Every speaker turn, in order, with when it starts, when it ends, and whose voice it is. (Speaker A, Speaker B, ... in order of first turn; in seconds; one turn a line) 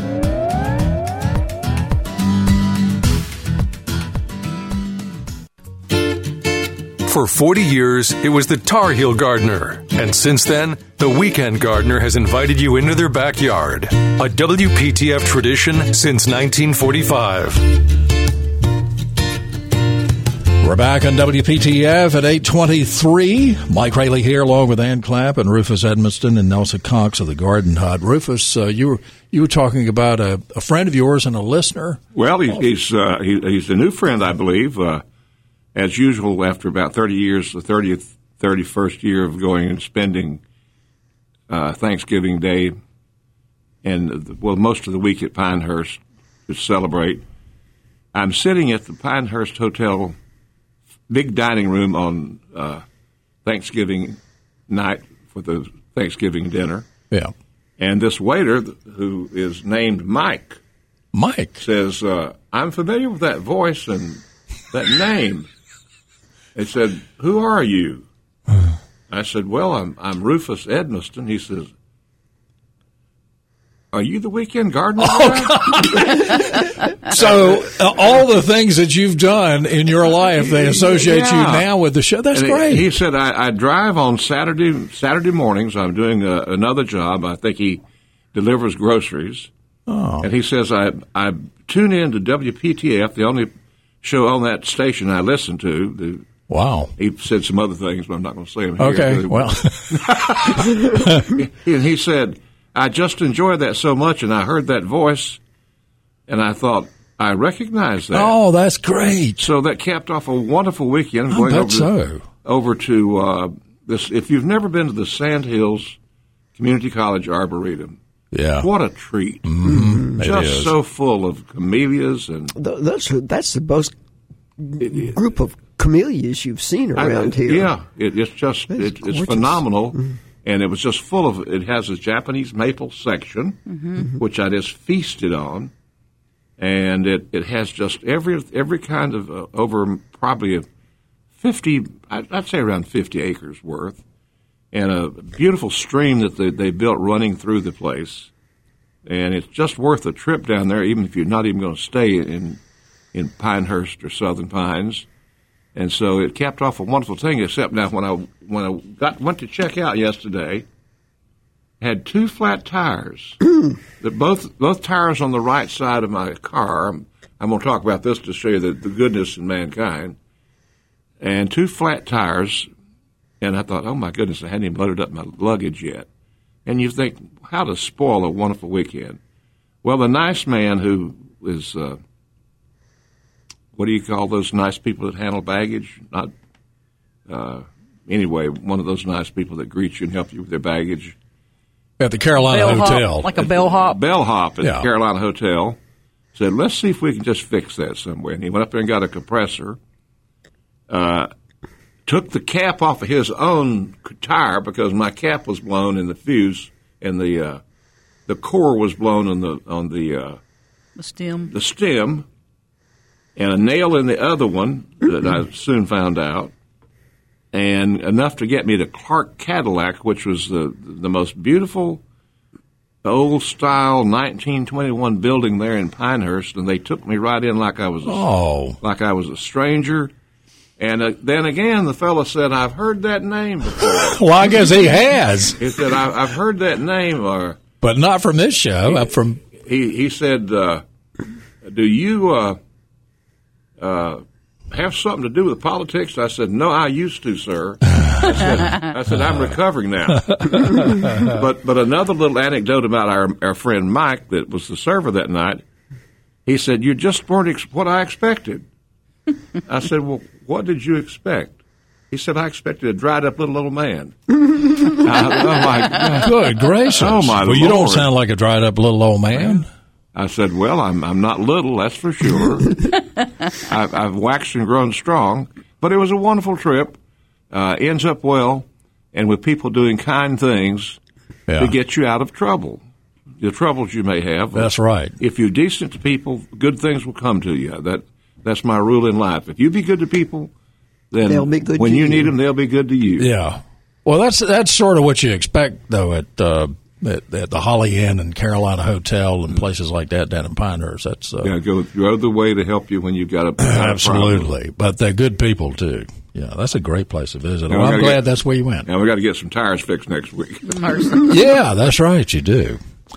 Speaker A: 7.0-17.6
Speaker B: 20.6-32.0
Speaker C: 32.1-35.0
Speaker C: 35.7-40.4
Speaker C: 41.5-42.7
Speaker C: 43.8-47.2
Speaker C: 48.1-50.1
Speaker C: 51.1-52.8
Speaker C: 53.4-54.2
Speaker C: 54.7-56.9
Speaker C: 57.8-60.6
Speaker B: 61.1-61.6
Speaker C: 61.6-65.5
Speaker C: 66.5-68.0
Speaker C: 69.1-71.7
Speaker C: 73.9-76.4
Speaker B: 75.0-82.9
Speaker C: 80.6-81.7
Speaker C: 82.3-87.8
Speaker C: 88.3-89.5
Speaker B: 89.9-90.3
Speaker C: 90.2-93.5
Speaker C: 94.0-96.3
Speaker B: 96.5-96.9
Speaker C: 97.0-105.4
Speaker B: 98.8-101.3
Speaker C: 106.3-108.3
Speaker B: 108.1-109.5
Speaker C: 109.4-111.9
Speaker B: 111.3-112.2
Speaker C: 112.4-116.0
Speaker C: 116.5-118.0
Speaker B: 118.3-118.7
Speaker C: 118.6-122.5
Speaker B: 119.4-120.7
Speaker D: 119.7-120.1
Speaker D: 122.5-123.9
Speaker D: 124.6-127.7
Speaker C: 127.0-135.7
Speaker D: 128.7-130.1
Speaker E: 133.7-134.1
Speaker C: 136.6-140.7
Speaker C: 141.4-144.0
Speaker C: 144.7-148.3
Speaker C: 149.1-152.6
Speaker C: 153.1-155.1
Speaker C: 155.7-160.6
Speaker C: 161.8-163.4
Speaker C: 164.0-170.2
Speaker C: 171.2-172.7
Speaker C: 173.4-176.1
Speaker C: 176.7-179.2
Speaker C: 179.8-182.0
Speaker C: 183.8-186.3
Speaker C: 187.3-191.1
Speaker B: 192.0-193.3
Speaker E: 192.4-194.0
Speaker C: 193.4-195.8
Speaker C: 196.3-199.8
Speaker C: 200.9-201.3
Speaker C: 202.1-207.6
Speaker C: 208.3-210.4
Speaker E: 211.0-211.5
Speaker C: 211.5-212.2
Speaker C: 213.3-216.5
Speaker C: 217.5-222.0
Speaker C: 223.0-228.2
Speaker B: 228.0-228.8
Speaker C: 228.8-230.1
Speaker C: 230.8-234.2
Speaker B: 233.8-235.6
Speaker C: 235.6-237.6
Speaker B: 237.8-239.4
Speaker C: 239.6-240.8
Speaker C: 241.6-242.6
Speaker C: 243.8-255.6
Speaker B: 250.3-251.3
Speaker C: 256.4-258.6
Speaker C: 259.6-261.6
Speaker C: 262.1-266.4
Speaker B: 266.1-269.7
Speaker C: 266.9-268.1
Speaker C: 269.3-269.6
Speaker C: 270.1-276.9
Speaker C: 277.5-281.0
Speaker B: 281.5-281.7
Speaker C: 281.6-282.8
Speaker C: 283.4-290.5
Speaker B: 284.5-285.1
Speaker C: 291.1-293.3
Speaker D: 291.2-292.3
Speaker B: 293.2-301.5
Speaker C: 301.4-304.5
Speaker B: 303.6-308.9
Speaker C: 307.7-308.2
Speaker C: 308.9-311.0
Speaker E: 310.7-311.3
Speaker B: 311.2-312.8